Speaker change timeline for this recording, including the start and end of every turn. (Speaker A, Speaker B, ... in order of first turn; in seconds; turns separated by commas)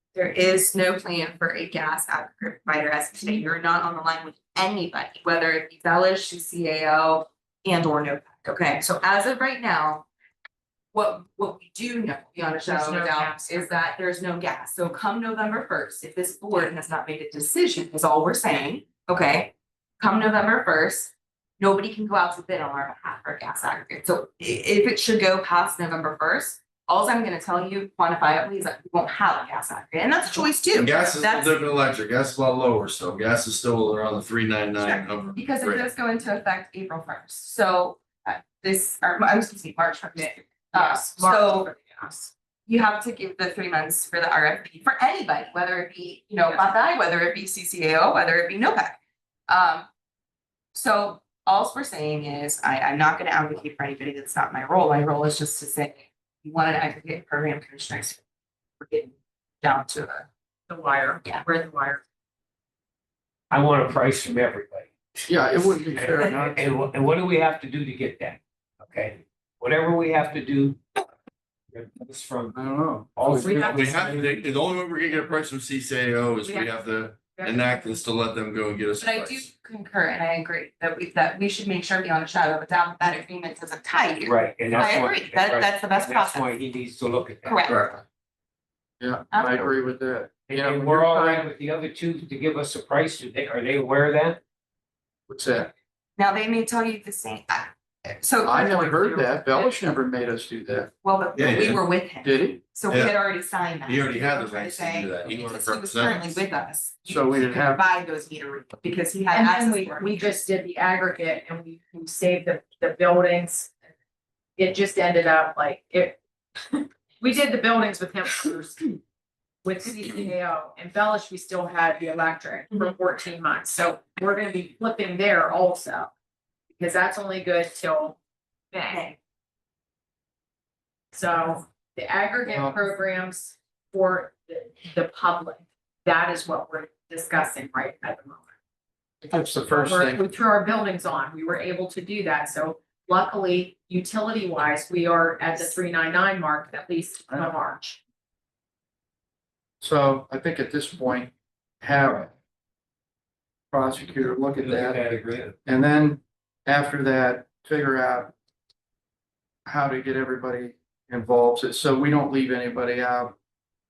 Speaker A: 0.1-10.1, Speaker A: 10.9-31.7, Speaker B: 12.6-13.8, Speaker C: 30.7-35.9, Speaker A: 34.8-41.7, Speaker B: 40.7-42.3, Speaker A: 42.7-49.0, Speaker B: 46.5-46.7, Speaker A: 49.5-49.9, Speaker A: 50.7-58.2, Speaker A: 58.8-60.3, Speaker B: 60.7-62.0, Speaker D: 63.5-64.9, Speaker E: 65.2-66.7, Speaker D: 65.8-71.0, Speaker D: 71.7-72.6, Speaker E: 72.5-74.0, Speaker D: 73.2-74.4, Speaker B: 73.4-75.4, Speaker C: 73.7-79.5, Speaker B: 76.4-78.0, Speaker A: 79.0-86.5, Speaker D: 84.2-87.7, Speaker A: 87.4-87.8, Speaker E: 87.7-88.0, Speaker E: 89.0-91.5, Speaker A: 89.3-89.7, Speaker D: 90.5-94.4, Speaker E: 95.3-95.7, Speaker A: 96.2-99.8, Speaker E: 98.4-100.9, Speaker A: 101.0-110.4, Speaker C: 101.3-101.8, Speaker E: 102.2-102.6, Speaker C: 102.9-103.2, Speaker C: 103.8-106.4, Speaker E: 107.1-107.8, Speaker B: 109.3-113.7, Speaker B: 114.6-119.0, Speaker B: 119.6-126.1, Speaker B: 126.8-128.2, Speaker B: 128.7-129.1, Speaker A: 128.9-129.1, Speaker B: 131.1-138.5, Speaker E: 132.4-132.9, Speaker E: 139.2-140.2, Speaker B: 139.7-148.0, Speaker E: 149.8-152.3, Speaker E: 153.7-155.0, Speaker D: 154.6-155.5, Speaker E: 155.6-158.3, Speaker E: 159.7-163.3